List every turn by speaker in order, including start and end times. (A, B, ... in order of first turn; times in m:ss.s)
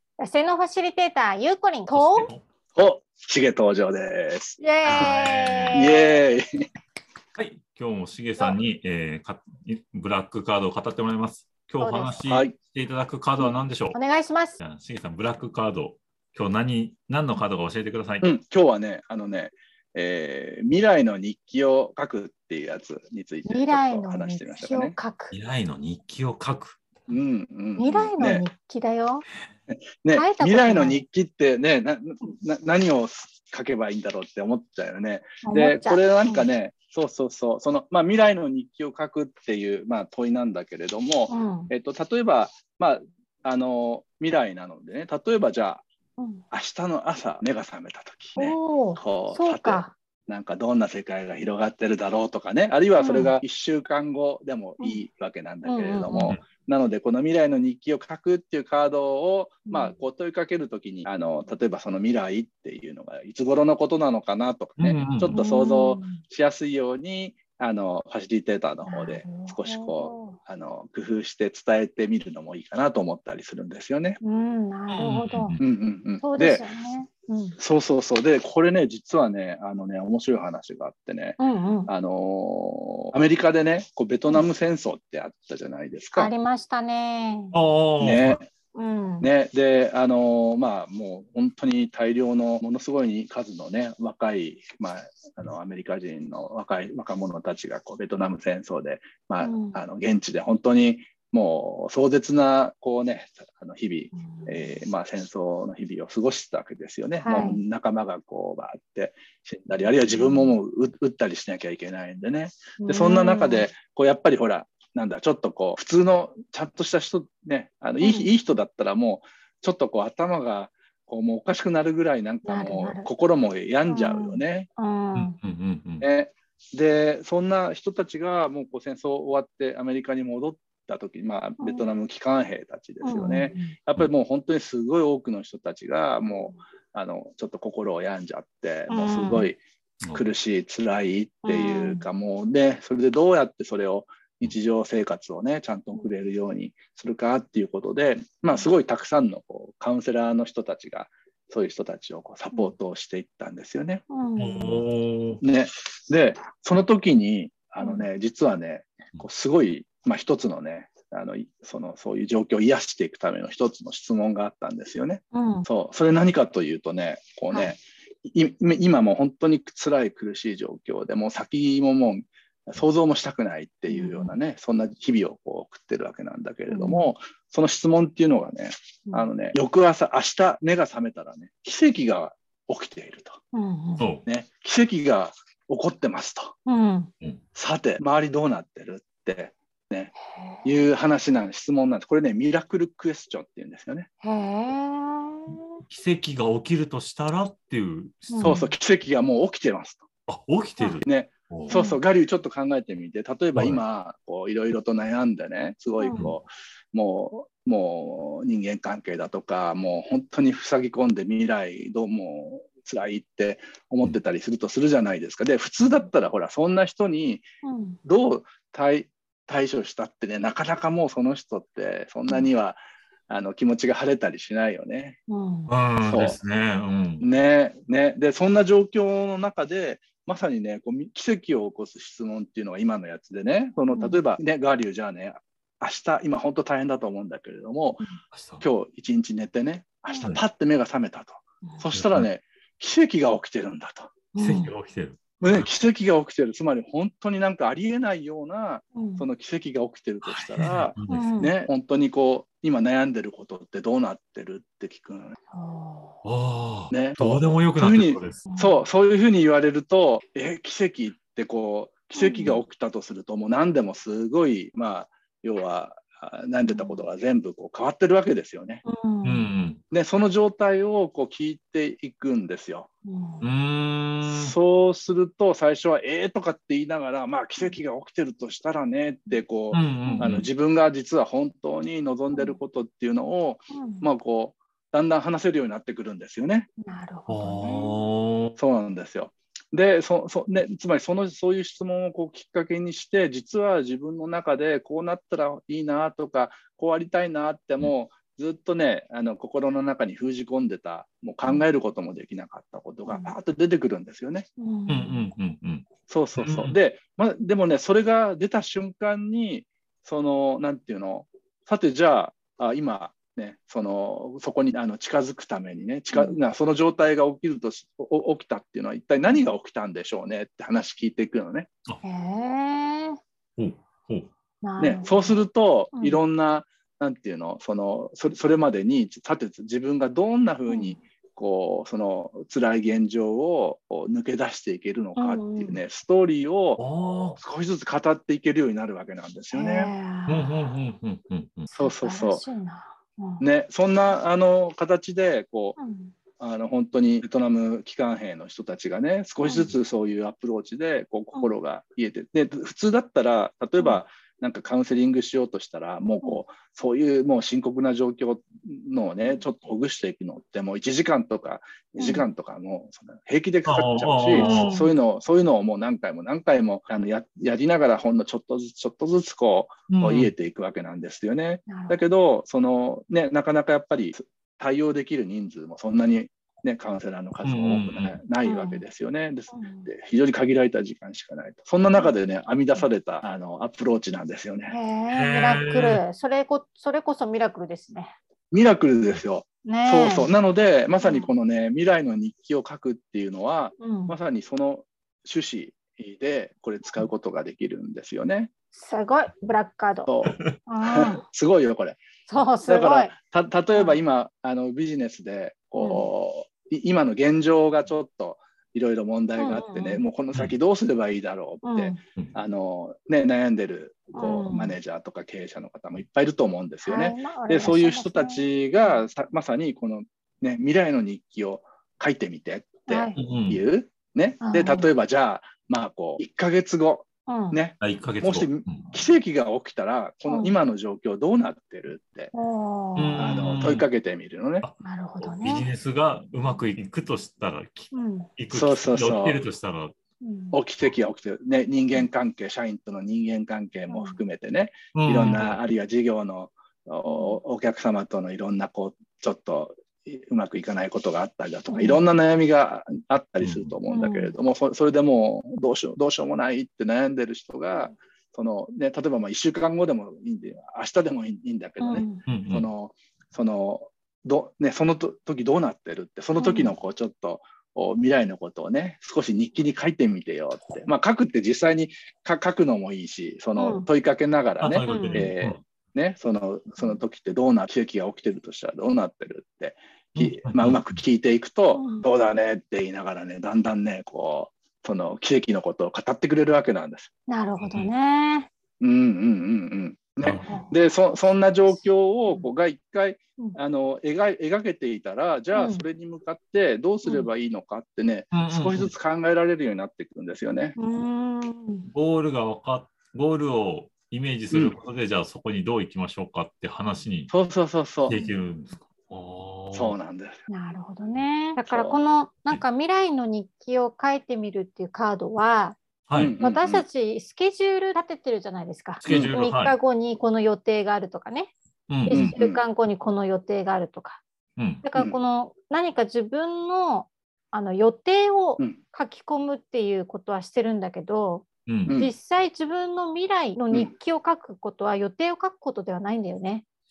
0:00.2-0:02.3 A
0:01.9-0:02.4 B
0:02.8-0:05.1 C
0:04.6-0:06.2 A
0:04.8-0:05.9 B
0:05.8-0:06.6 C
0:07.4-0:14.0 B
0:11.8-0:12.2 A
0:12.3-0:12.5 C
0:13.4-0:14.6 A
0:14.6-0:18.3 B
0:18.2-0:25.0 C
0:23.5-0:25.3 A
0:25.3-0:27.2 B
0:27.1-0:28.5 C
0:27.8-0:29.2 A
0:29.7-0:45.8 C
0:30.1-0:31.0 A
0:35.4-0:36.5 A
0:41.3-0:41.7 A
0:46.2-0:46.4 A
0:46.5-1:14.2 C
0:48.4-0:49.9 A
0:53.0-0:53.4 A
0:55.6-0:56.4 A
0:59.7-0:59.9 A
1:04.8-1:05.4 B
1:05.3-1:06.2 A
1:08.8-1:10.4 A
1:14.2-1:15.6 A
1:14.9-1:15.6 B
1:15.6-1:16.6 C
1:16.2-1:17.6 A
1:17.6-1:26.3 C
1:21.4-1:21.9 A
1:26.1-1:27.6 A
1:27.5-1:28.4 B
1:28.0-1:28.5 C
1:28.7-1:29.3 A
1:29.2-2:04.7 C
1:39.4-1:39.8 A
1:44.1-1:44.8 A
1:47.2-1:47.6 A
1:52.8-1:53.7 A
1:58.0-1:58.3 A
2:02.4-2:03.1 A
2:03.9-2:05.4 A
2:05.1-2:06.1 B
2:06.0-2:19.6 C
2:11.6-2:11.9 A
2:13.0-2:13.7 A
2:16.2-2:16.6 A
2:18.9-2:19.5 A
2:20.1-2:34.0 C
2:21.4-2:22.0 A
2:34.1-2:34.8 A
2:34.4-2:35.4 B
2:35.4-3:03.4 C
2:37.8-2:38.1 A
2:45.3-2:45.7 A
2:53.9-2:54.3 A
2:56.7-2:57.1 A
3:03.5-3:04.1 A
3:04.0-3:04.3 B
3:04.3-3:06.5 C
3:06.7-3:07.1 A
3:07.6-3:14.1 C
3:10.2-3:10.8 A
3:14.2-3:15.8 A
3:15.9-3:18.6 B
3:18.3-3:18.7 A
3:18.4-3:20.1 C
3:20.3-3:21.7 B
3:20.8-3:21.0 A
3:21.0-3:37.5 C
3:21.7-3:22.0 A
3:23.5-3:23.8 B
3:26.0-3:26.3 A
3:37.6-3:38.0 A
3:38.0-3:45.2 C
3:45.3-3:45.7 A
3:45.7-3:47.3 B
3:46.1-3:46.4 C
3:47.2-3:58.0 C
3:53.9-3:54.2 A
3:58.3-3:58.7 B
3:58.6-4:04.1 C
4:01.9-4:02.3 B
4:04.3-4:04.7 A
4:04.4-4:05.7 B
4:05.4-4:15.4 C
4:09.0-4:09.2 A
4:10.2-4:11.2 B
4:11.1-4:11.6 A
4:15.5-4:16.2 A
4:16.2-4:18.4 B
4:16.9-4:28.8 C
4:18.5-4:18.8 A
4:22.2-4:22.6 A
4:26.7-4:27.0 A
4:28.8-4:29.5 A
4:29.2-4:29.8 B
4:29.9-4:32.9 C
4:33.0-4:33.4 A
4:33.4-4:34.5 B
4:34.2-4:46.7 C
4:39.7-4:40.5 B
4:42.3-4:42.6 A
4:43.7-4:44.1 A
4:46.8-4:48.0 A
4:47.3-4:48.6 B
4:48.6-5:04.5 C
5:03.1-5:03.3 A
5:04.6-5:05.3 A
5:04.9-5:05.9 B
5:06.1-5:21.7 C
5:06.4-5:06.8 B
5:16.1-5:16.4 A
5:22.0-5:23.2 A
5:23.6-5:24.3 B
5:24.6-5:25.3 A
5:24.8-5:36.8 C
5:25.9-5:26.2 A
5:30.7-5:31.0 A
5:35.2-5:35.8 A
5:36.8-5:37.4 B
5:37.4-5:39.9 C
5:39.5-5:40.6 A
5:40.3-5:41.7 B
5:41.7-5:43.4 A
5:41.8-5:42.4 C
5:43.4-5:45.8 C
5:45.8-5:46.2 A
5:46.4-6:24.8 C
5:49.4-5:49.8 A
5:53.8-5:54.0 A
6:02.0-6:02.3 A
6:03.6-6:04.8 B
6:04.4-6:04.9 A
6:09.9-6:10.3 B
6:11.7-6:12.0 A
6:17.4-6:18.2 B
6:18.4-6:18.8 A
6:19.5-6:19.9 A
6:24.7-6:28.1 A
6:25.1-6:26.0 B
6:28.5-6:38.5 C
6:29.6-6:30.3 A
6:31.0-6:31.3 A
6:33.8-6:34.2 A
6:38.7-6:40.1 A
6:40.1-6:40.4 C
6:40.7-6:41.2 A
6:40.9-6:42.0 C
6:42.3-6:43.1 A
6:42.7-7:12.3 C
6:43.7-6:44.0 A
6:45.8-6:46.1 A
6:49.4-6:50.0 A
6:51.6-6:52.0 A
6:54.1-6:54.8 A
6:56.8-6:59.0 A
7:02.9-7:03.2 A
7:03.2-7:03.6 B
7:04.4-7:04.9 A
7:07.3-7:07.6 A
7:07.8-7:08.9 B
7:10.3-7:10.6 A
7:12.3-7:13.2 A
7:13.0-7:13.9 B
7:13.2-7:14.7 C
7:14.6-7:19.9 B
7:14.8-7:15.6 A
7:17.9-7:18.3 A
7:18.5-7:19.4 C
7:20.2-7:20.6 A
7:20.5-8:07.1 C
7:23.9-7:24.2 A
7:25.0-7:25.6 B
7:27.1-7:27.4 A
7:31.7-7:32.1 A
7:33.4-7:33.8 B
7:33.9-7:34.3 A
7:41.8-7:42.2 A
7:42.3-7:42.7 B
7:46.4-7:46.7 A
7:53.6-7:53.9 A
7:54.6-7:55.6 B
7:54.9-7:55.3 A
8:00.2-8:01.0 B
8:01.7-8:02.1 A
8:07.3-8:08.5 A
8:07.6-8:07.9 B
8:08.8-8:20.8 C
8:10.2-8:10.5 B
8:10.4-8:10.7 A
8:11.7-8:12.5 A
8:15.5-8:15.8 A
8:18.3-8:18.9 B
8:20.8-8:21.9 A
8:21.9-8:27.3 B
8:24.5-8:24.8 C
8:27.3-8:28.2 C
8:28.1-8:30.0 B
8:28.1-8:28.4 A
8:29.7-8:30.4 C
8:30.5-8:35.8 A
8:31.6-8:32.0 C
8:36.1-8:36.4 B
8:36.2-8:36.8 C
8:36.4-8:41.5 A
8:39.0-8:39.8 B
8:39.1-8:39.4 C
8:41.9-8:42.3 B
8:42.1-8:44.2 A
8:42.1-8:42.6 C
8:44.6-8:44.8 B
8:44.8-8:56.6 A
8:51.7-8:51.9 B
8:51.9-8:52.1 C